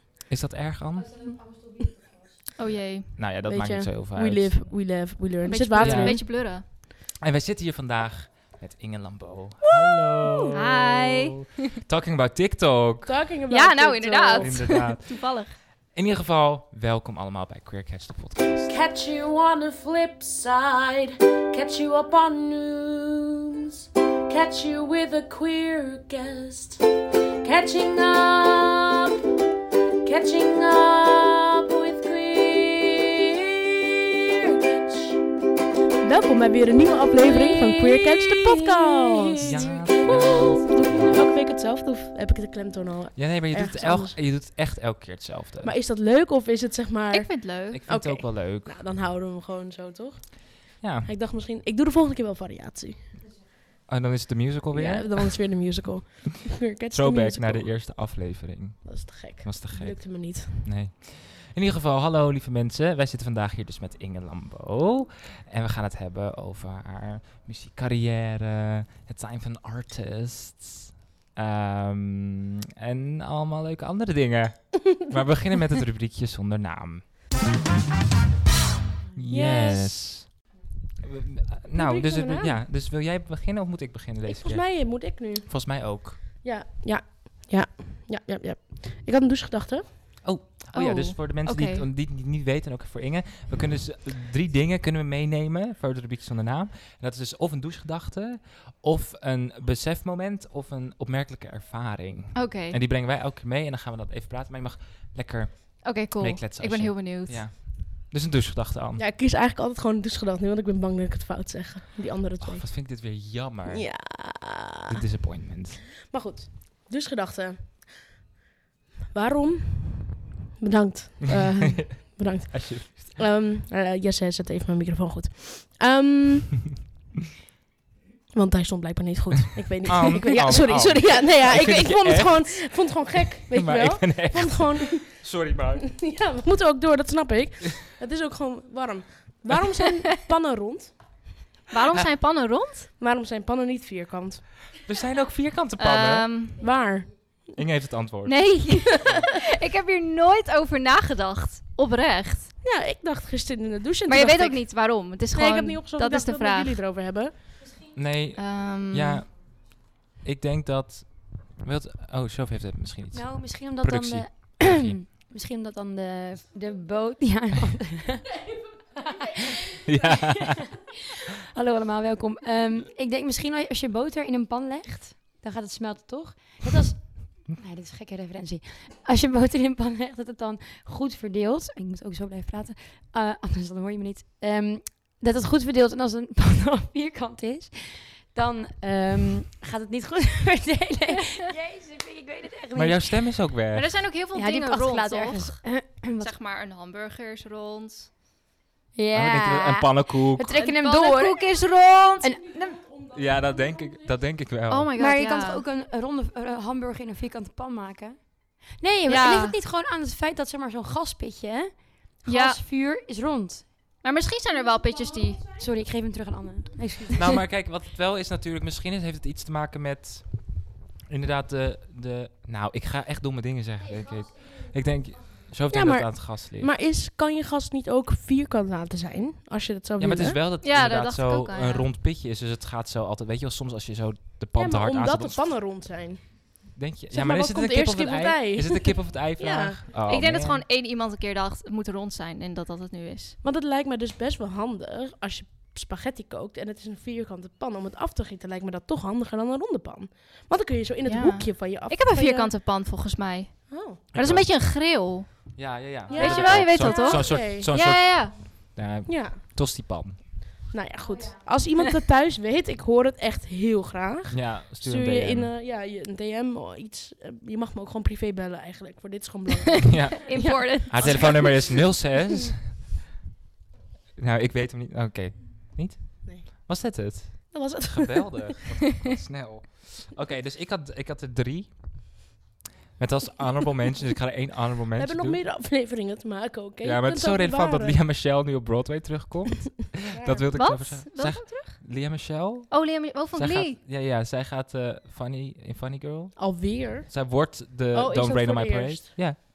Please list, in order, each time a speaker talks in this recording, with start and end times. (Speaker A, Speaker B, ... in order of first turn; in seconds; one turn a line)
Speaker A: 0.3-1.3
Speaker B: 2.6-3.2
Speaker A: 3.2-4.6
Speaker C: 3.4-6.3
Speaker B: 5.4-6.7
Speaker A: 5.8-6.6
Speaker A: 7.2-13.2
Speaker C: 9.8-10.4
Speaker B: 10.5-11.6
Speaker C: 13.1-14.8
Speaker B: 13.5-15.6
Speaker A: 14.4-18.8
Speaker C: 18.7-26.9
Speaker C: 27.4-29.3
Speaker C: 30.0-35.3
Speaker C: 36.0-44.2
Speaker B: 38.1-38.6
Speaker A: 39.4-41.1
Speaker A: 43.1-45.7
Speaker C: 45.6-53.1
Speaker B: 47.1-47.8
Speaker A: 47.7-48.8
Speaker A: 50.8-51.1
Speaker A: 53.9-55.5
Speaker C: 54.7-57.8
Speaker A: 56.9-77.1
Speaker C: 58.8-60.7
Speaker A: 79.1-86.2
Speaker C: 79.3-80.1
Speaker C: 81.8-82.6
Speaker C: 84.3-89.9
Speaker A: 90.2-109.0
Speaker B: 90.7-91.9
Speaker B: 102.3-102.8
Speaker B: 105.8-107.5
Speaker C: 109.0-112.8
Speaker A: 112.4-114.3
Speaker C: 113.7-115.0
Speaker A: 114.9-115.8
Speaker C: 116.0-118.2
Speaker C: 119.1-126.8
Speaker A: 121.3-123.1
Speaker C: 128.3-141.3
Speaker A: 129.9-135.9
Speaker B: 141.7-142.9
Speaker C: 143.0-144.5
Speaker A: 144.8-146.3
Speaker B: 145.8-146.8
Speaker C: 146.6-147.5
Speaker A: 147.6-149.2
Speaker B: 148.2-152.5
Speaker C: 152.6-157.3
Speaker B: 154.1-156.8
Speaker A: 157.9-165.0
Speaker B: 158.4-159.2
Speaker D: 163.1-168.4
Speaker D: 169.0-169.8
Speaker A: 169.8-170.6
Speaker D: 171.3-193.1
Speaker A: 192.8-193.9
Speaker B: 193.7-198.1
Speaker D: 194.3-196.3
Speaker D: 198.9-201.5
Speaker A: 199.1-200.6
Speaker B: 200.5-202.5
Speaker D: 202.2-202.8
Speaker C: 202.6-204.2
Speaker A: 203.1-204.9
Speaker B: 204.7-205.6
Speaker D: 205.0-213.7
Speaker B: 209.1-209.6
Speaker B: 212.3-212.6
Speaker B: 214.0-215.6
Speaker D: 215.5-217.4
Speaker A: 217.2-226.7
Speaker C: 225.7-230.4
Speaker A: 230.0-235.5
Speaker B: 230.6-231.9
Speaker C: 234.6-239.8
Speaker A: 236.7-240.6
Speaker B: 240.1-243.4
Speaker C: 243.4-252.5
Speaker B: 251.1-258.7
Speaker C: 253.7-254.0
Speaker A: 254.1-254.5
Speaker A: 255.6-260.3
Speaker C: 256.1-257.7
Speaker C: 259.1-259.4
Speaker C: 260.7-271.7
Speaker A: 264.3-265.5
Speaker A: 269.9-272.8
Speaker B: 270.2-271.6
Speaker A: 274.2-282.3
Speaker C: 277.5-278.5
Speaker A: 283.0-285.4
Speaker C: 285.0-288.0
Speaker A: 286.8-299.4
Speaker C: 290.0-290.5
Speaker B: 290.5-292.0
Speaker B: 292.7-293.8
Speaker C: 296.4-297.3
Speaker C: 297.9-299.4